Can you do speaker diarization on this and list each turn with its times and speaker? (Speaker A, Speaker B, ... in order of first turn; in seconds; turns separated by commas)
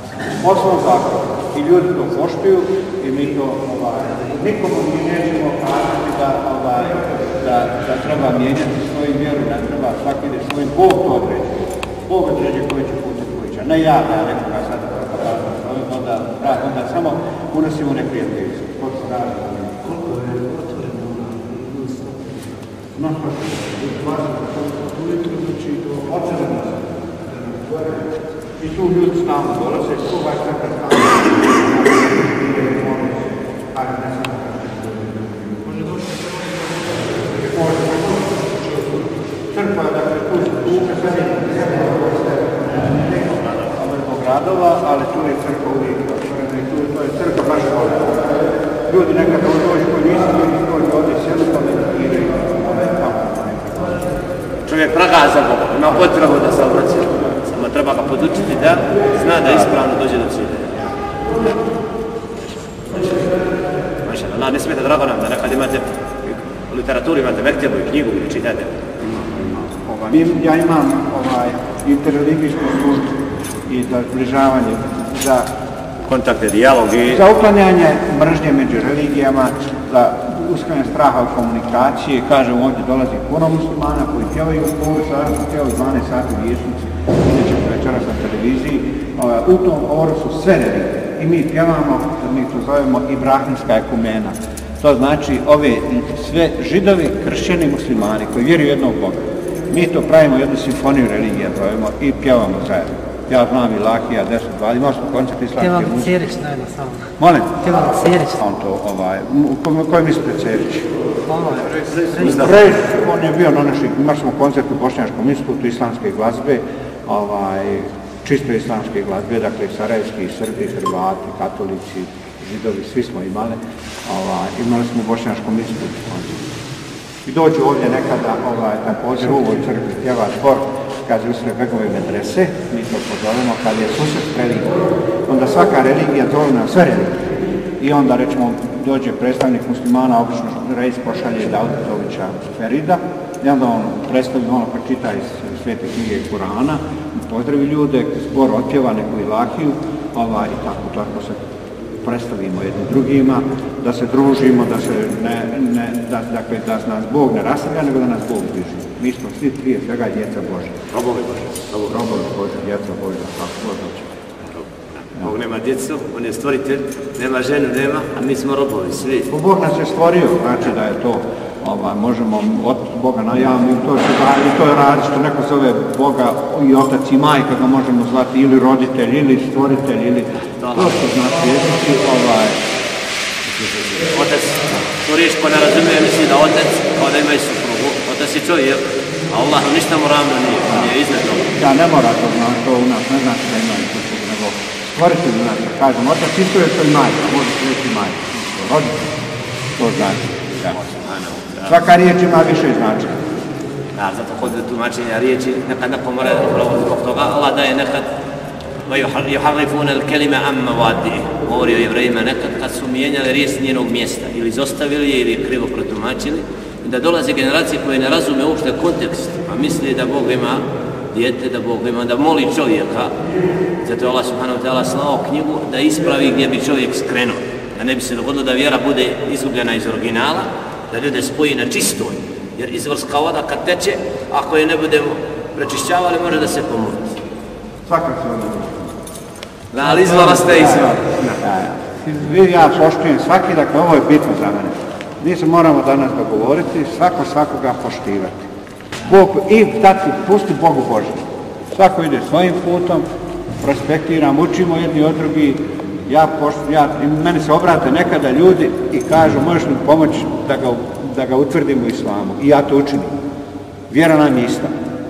Speaker A: 0.2-20.0, Speaker A: 22.9-36.1, Speaker A: 37.1-38.9, Speaker A: 39.4-48.4, Speaker A: 48.9-54.1, Speaker B: 54.7-60.8, Speaker B: 64.0-68.8, Speaker A: 69.0-75.5, Speaker B: 76.0-77.2, Speaker A: 77.1-106.1, Speaker C: 105.6-108.4, Speaker A: 107.2-107.6, Speaker A: 108.4-110.9, Speaker C: 111.3-112.4, Speaker A: 111.6-126.5, Speaker A: 127.2-137.2, Speaker A: 137.8-151.4, Speaker A: 152.0-160.8, Speaker B: 160.9-162.0, Speaker A: 161.9-164.0, Speaker B: 164.5-169.3, Speaker A: 169.3-182.6, Speaker B: 180.5-181.1, Speaker B: 183.5-191.5, Speaker A: 191.6-199.1, Speaker A: 199.8-200.8, Speaker B: 200.7-201.8, Speaker A: 201.7-203.2, Speaker B: 203.9-208.1, Speaker B: 208.9-223.1, Speaker B: 223.8-237.2, Speaker A: 237.8-238.9, Speaker B: 239.7-241.4, Speaker A: 239.8-248.5, Speaker A: 249.0-253.1, Speaker A: 253.6-263.2, Speaker A: 263.9-264.7